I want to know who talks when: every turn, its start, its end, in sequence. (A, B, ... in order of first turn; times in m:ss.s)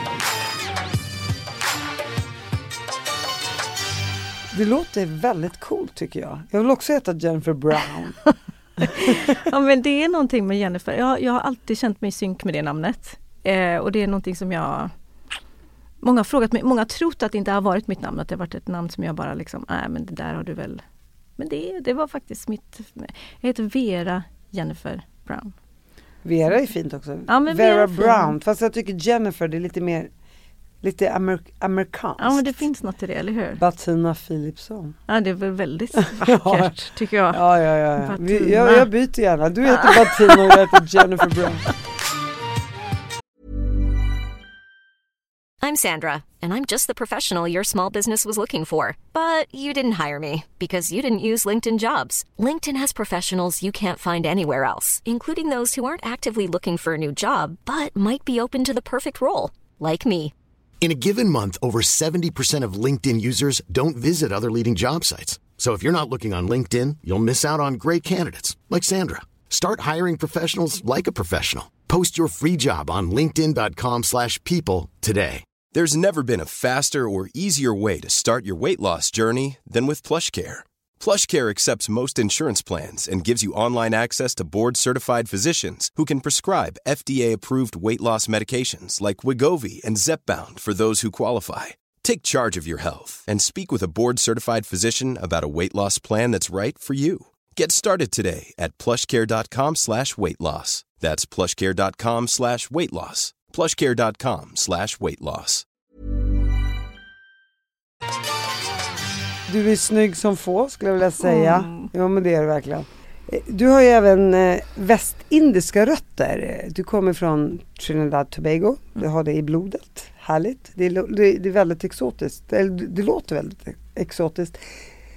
0:04.5-0:08.2 A
0:08.8-0:09.3 A
0:08.8-0:14.9 B
0:16.0-0:20.8 B
0:21.4-0:25.6 B
0:26.2-0:30.1 A
0:27.3-0:28.4 B
0:30.8-0:32.6 A
0:32.2-0:33.6 B
0:33.6-0:35.0 A
0:35.1-0:37.4 B
0:36.0-0:36.8 A
0:37.3-0:41.7 A
0:37.9-0:38.9 B
0:39.7-0:40.8 B
0:45.6-1:00.3 C
1:00.8-1:15.4 D
1:15.7-1:45.6 E
1:49.5-2:04.8 A
1:51.2-1:51.9 B